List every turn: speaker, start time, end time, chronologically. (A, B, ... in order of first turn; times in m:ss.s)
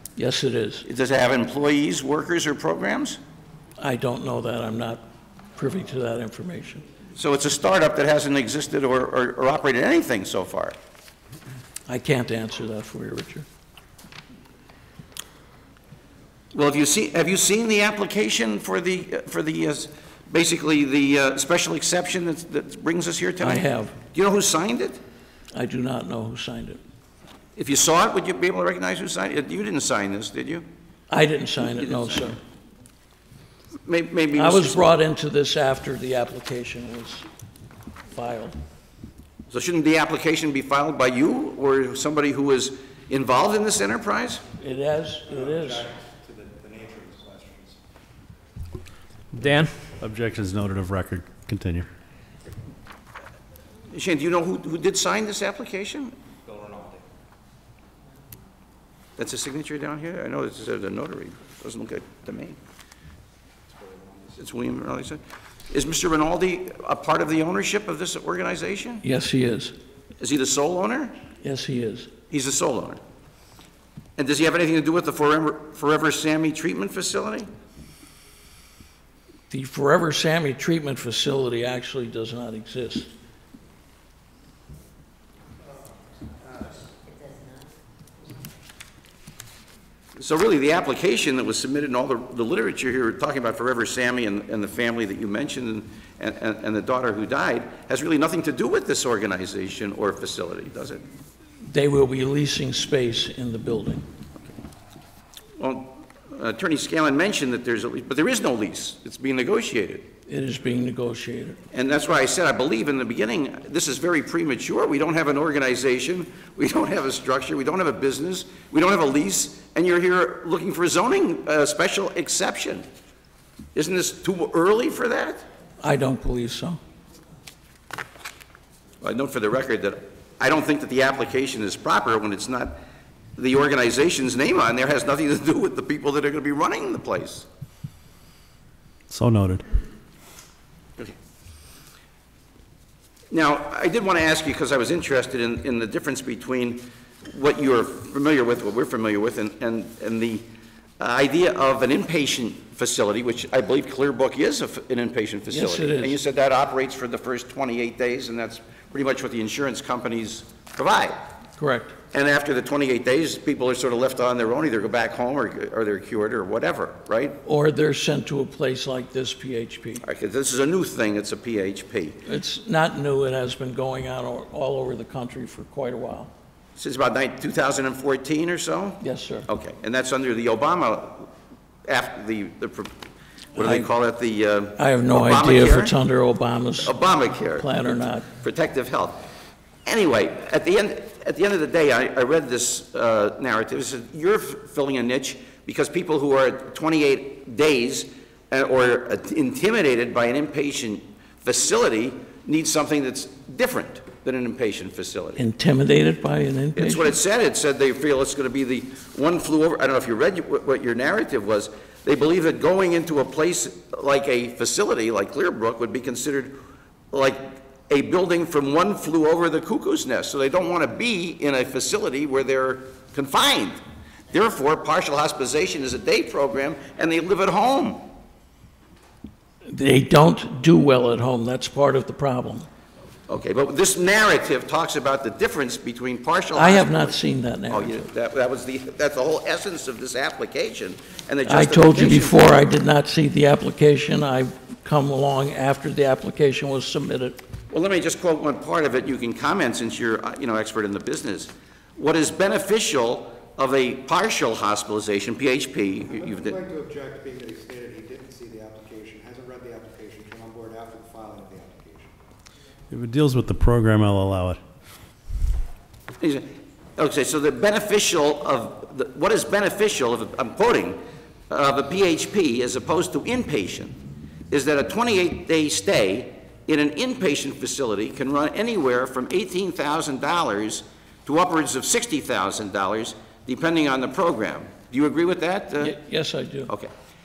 0:00.2-0:00.8 A
0:00.8-0:03.2 B
0:03.8-0:05.0 A
0:05.6-0:06.8 A
0:07.2-0:10.8 B
0:11.9-0:13.4 A
0:16.5-0:25.0 B
0:23.4-0:24.0 A
0:25.5-0:26.8 A
0:27.6-0:30.6 B
0:31.1-0:32.4 A
0:31.6-0:32.2 B
0:33.8-0:34.9 B
0:34.4-0:37.2 A
0:38.1-0:38.6 A
0:39.5-0:44.4 B
0:44.6-0:45.9 A
0:45.3-0:47.8 C
0:49.3-0:51.9 D
0:53.9-0:56.1 B
0:56.4-0:57.0 C
0:59.2-1:02.6 B
1:03.6-1:04.4 C
1:04.4-1:09.0 B
1:09.0-1:09.7 A
1:10.2-1:11.1 B
1:11.4-1:12.1 A
1:12.3-1:13.0 B
1:14.2-1:17.5 B
1:19.5-1:23.1 A
1:30.2-1:41.0 B
1:41.6-1:44.0 A
1:45.6-1:50.1 B
1:50.3-1:51.6 A
1:51.7-2:02.8 B
2:03.7-2:05.4 B
2:05.8-2:06.8 A
2:09.0-2:12.8 B
2:13.4-2:17.4 B
2:19.1-2:19.6 D
2:23.3-2:30.4 B
2:31.0-2:41.2 B
2:35.5-2:36.2 A
2:41.6-2:42.0 A
2:42.1-2:47.4 B
2:47.4-2:50.0 A
2:50.0-2:52.2 B
2:52.2-2:56.3 A
2:56.8-3:01.3 B
2:59.0-2:59.5 A
3:01.9-3:02.9 B
3:03.5-3:05.9 B
3:03.6-3:03.9 A
3:04.8-3:08.3 A
3:06.8-3:07.7 B
3:08.3-3:09.2 B
3:09.8-3:25.4 B
3:25.4-3:27.2 A
3:26.8-3:36.5 B
3:37.1-3:43.8 B
3:44.3-3:48.0 B
3:49.6-3:52.7 A
3:53.3-3:57.1 B
3:56.5-3:58.1 A
3:57.7-4:02.6 B
4:01.4-4:07.4 A
4:07.7-4:16.6 B
4:16.1-4:22.1 C
4:22.9-4:24.6 D
4:26.2-4:31.0 B
4:31.5-4:33.9 B
4:34.5-4:46.0 B
4:45.8-4:46.7 A